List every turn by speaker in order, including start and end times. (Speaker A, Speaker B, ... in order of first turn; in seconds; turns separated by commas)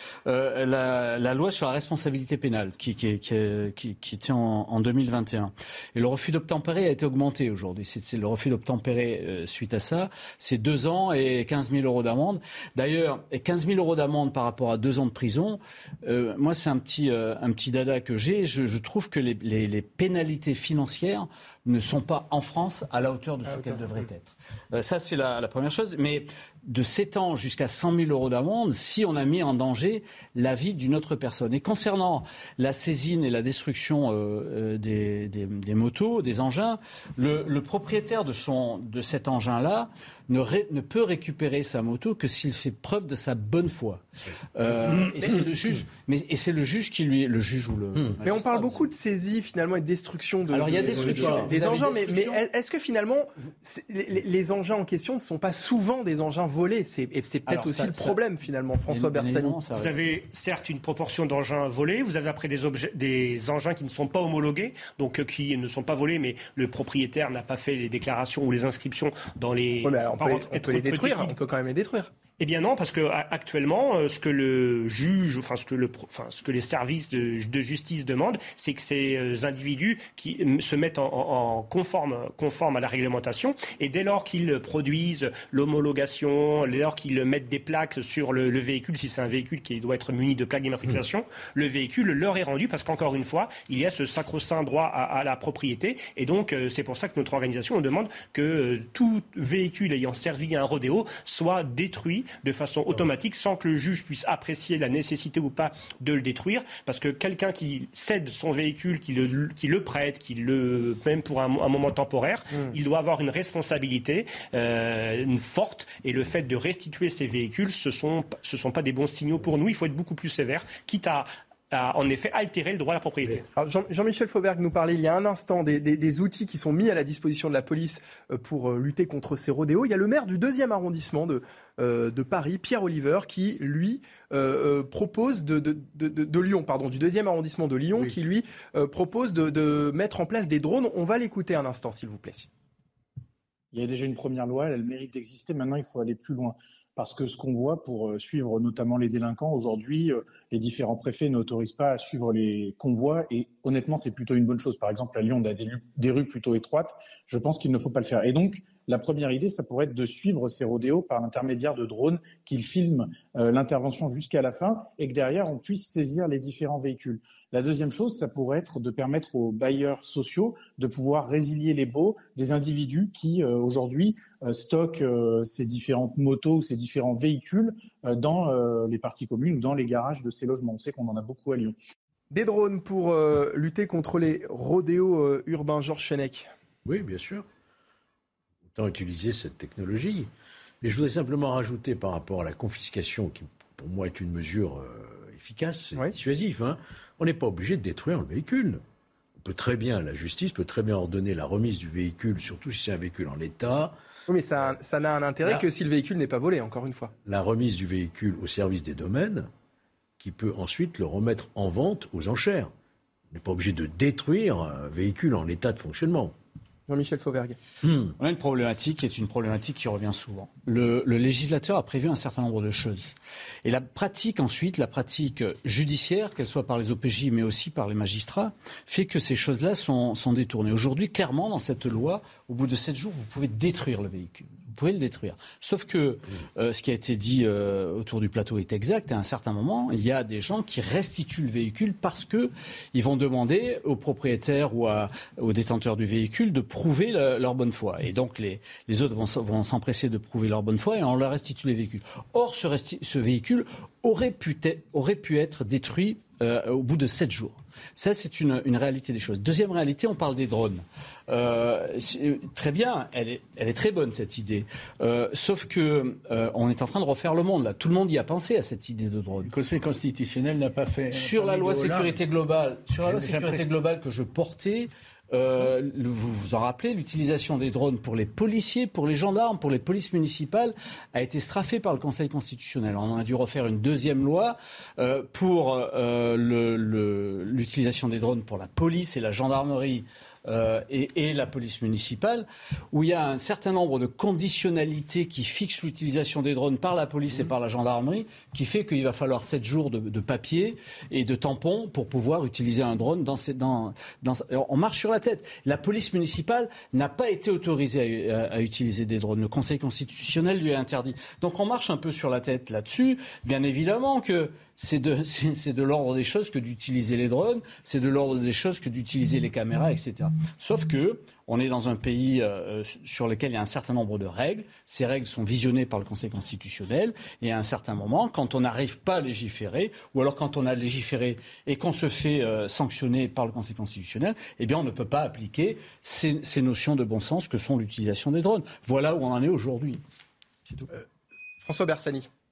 Speaker A: 0.2-44.0, Speaker B: 23.5-24.0, Speaker A: 44.5-48.9, Speaker B: 48.2-59.7, Speaker A: 50.5-52.4, Speaker C: 50.9-51.5, Speaker A: 57.5-58.2, Speaker A: 58.9-59.9, Speaker D: 59.7-71.3, Speaker B: 69.8-72.1, Speaker D: 72.4-123.4, Speaker B: 112.5-112.8, Speaker B: 123.5-142.5, Speaker E: 143.7-181.8, Speaker B: 182.3-186.5, Speaker C: 186.8-187.4, Speaker C: 188.7-190.3, Speaker C: 190.8-198.8, Speaker C: 199.4-203.9, Speaker B: 204.3-207.1, Speaker C: 207.2-209.5, Speaker C: 210.2-212.7, Speaker C: 213.3-216.3, Speaker B: 216.9-217.6, Speaker C: 217.8-218.1, Speaker A: 218.2-223.1, Speaker A: 223.6-269.5, Speaker F: 269.5-272.1, Speaker A: 271.1-340.0, Speaker F: 273.0-273.7, Speaker B: 341.6-342.3